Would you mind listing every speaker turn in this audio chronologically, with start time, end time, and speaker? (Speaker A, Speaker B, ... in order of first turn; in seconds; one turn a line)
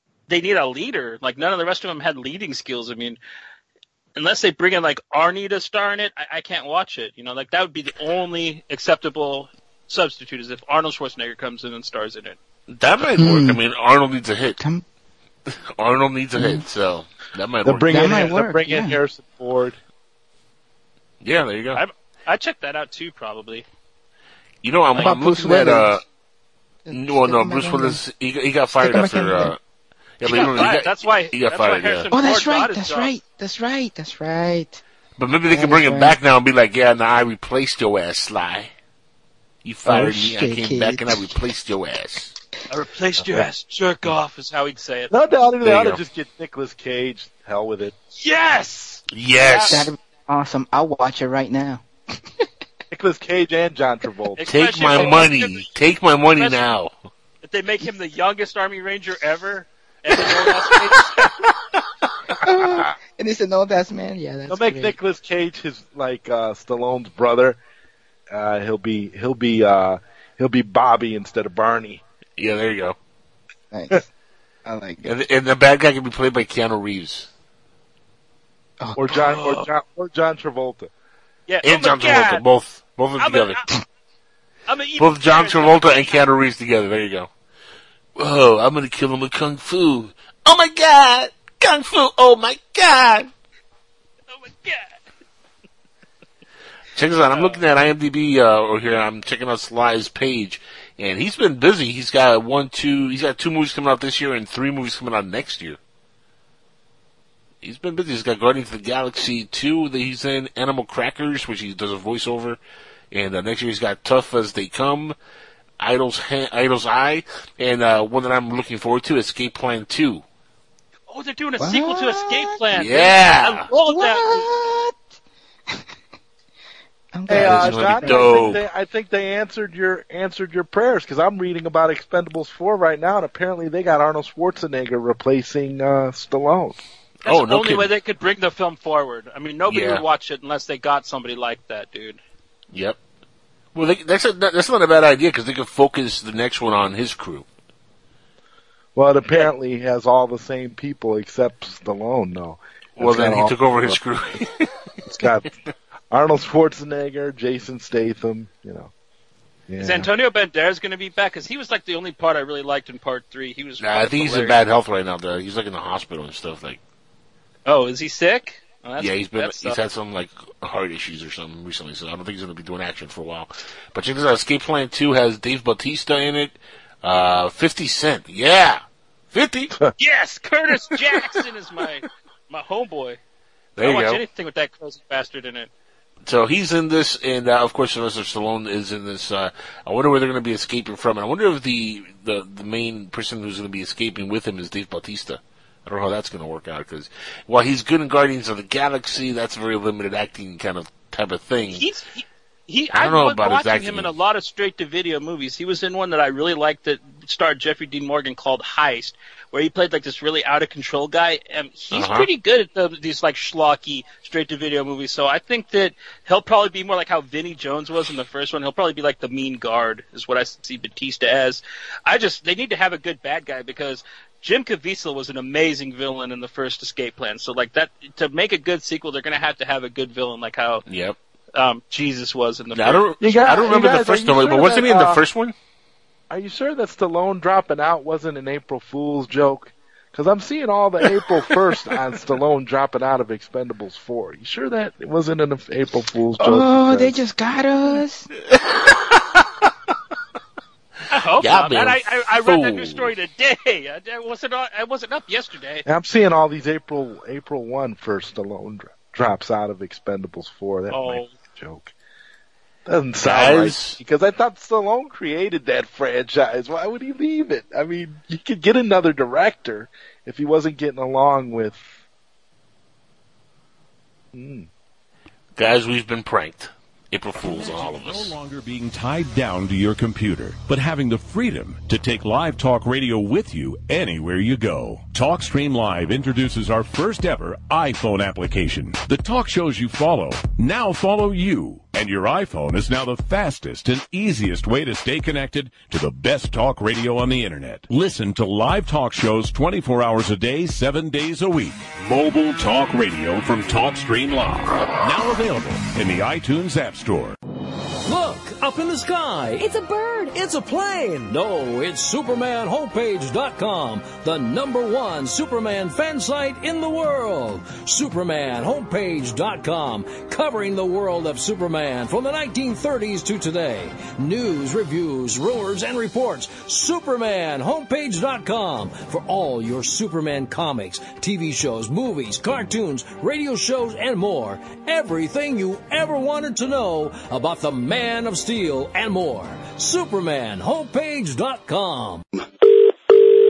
Speaker A: 0.3-3.2
Speaker A: 4.2-12.4
Speaker B: 12.7-14.6
Speaker C: 13.1-13.6
Speaker B: 15.5-18.1
Speaker C: 16.4-16.6
Speaker D: 17.6-19.8
Speaker C: 17.9-19.0
Speaker B: 21.2-21.8
Speaker A: 21.7-23.6
Speaker B: 24.6-26.0
Speaker C: 25.0-25.9
Speaker C: 26.9-28.0
Speaker B: 26.9-29.6
Speaker C: 28.8-29.5
Speaker B: 30.2-32.1
Speaker A: 30.2-33.1
Speaker C: 30.3-30.7
Speaker C: 32.1-34.8
Speaker B: 35.2-38.7
Speaker C: 35.5-36.1
Speaker B: 39.6-42.3
Speaker C: 39.8-41.4
Speaker A: 42.7-45.1
Speaker D: 45.1-47.9
Speaker B: 45.6-46.0
Speaker A: 48.1-49.8
Speaker B: 49.1-49.9
Speaker C: 49.7-51.8
Speaker D: 52.9-54.4
Speaker A: 54.4-55.7
Speaker B: 54.5-56.9
Speaker A: 56.3-56.6
Speaker A: 57.4-61.3
Speaker C: 62.4-64.9
Speaker D: 62.4-62.9
Speaker D: 64.5-67.6
Speaker D: 68.3-72.0
Speaker B: 72.4-73.0
Speaker C: 73.7-74.0
Speaker C: 74.6-75.0
Speaker B: 75.0-77.3
Speaker C: 78.8-79.4
Speaker D: 79.0-80.9
Speaker A: 79.2-79.7
Speaker A: 81.5-82.4
Speaker B: 81.6-83.6
Speaker A: 83.2-83.6
Speaker A: 84.7-86.2
Speaker B: 85.0-87.3
Speaker B: 88.2-93.3
Speaker A: 94.3-94.9
Speaker B: 96.9-105.8
Speaker A: 97.3-97.6
Speaker B: 107.6-112.6
Speaker B: 113.1-115.2
Speaker B: 115.8-120.2
Speaker A: 121.1-124.5
Speaker C: 121.6-122.6
Speaker B: 122.7-123.7
Speaker C: 123.8-125.0
Speaker C: 127.1-128.5
Speaker B: 127.3-128.6
Speaker D: 127.3-136.8
Speaker B: 137.2-137.9
Speaker A: 137.2-142.2
Speaker B: 139.7-140.0
Speaker B: 142.7-143.0
Speaker B: 143.7-147.4
Speaker D: 148.9-154.0
Speaker B: 153.0-154.5
Speaker D: 155.0-155.5
Speaker D: 156.1-158.9
Speaker D: 159.7-160.1
Speaker A: 159.8-164.6
Speaker B: 163.8-166.8
Speaker A: 167.7-169.8
Speaker B: 169.0-179.7
Speaker A: 180.0-183.2
Speaker B: 183.8-184.2
Speaker A: 183.8-185.7
Speaker B: 186.2-201.8
Speaker A: 201.7-230.8
Speaker B: 202.9-204.1
Speaker B: 211.9-212.3
Speaker B: 230.9-231.2
Speaker A: 231.5-233.5
Speaker B: 232.7-235.5
Speaker D: 233.2-235.2
Speaker D: 236.3-247.2
Speaker C: 246.4-248.3
Speaker B: 248.5-249.4
Speaker A: 251.1-255.8
Speaker B: 251.4-253.1
Speaker D: 255.8-261.9
Speaker A: 260.9-261.3
Speaker D: 262.9-271.9
Speaker B: 263.2-264.0
Speaker D: 274.3-274.7
Speaker B: 275.6-278.4
Speaker E: 277.4-307.4
Speaker F: 308.0-342.2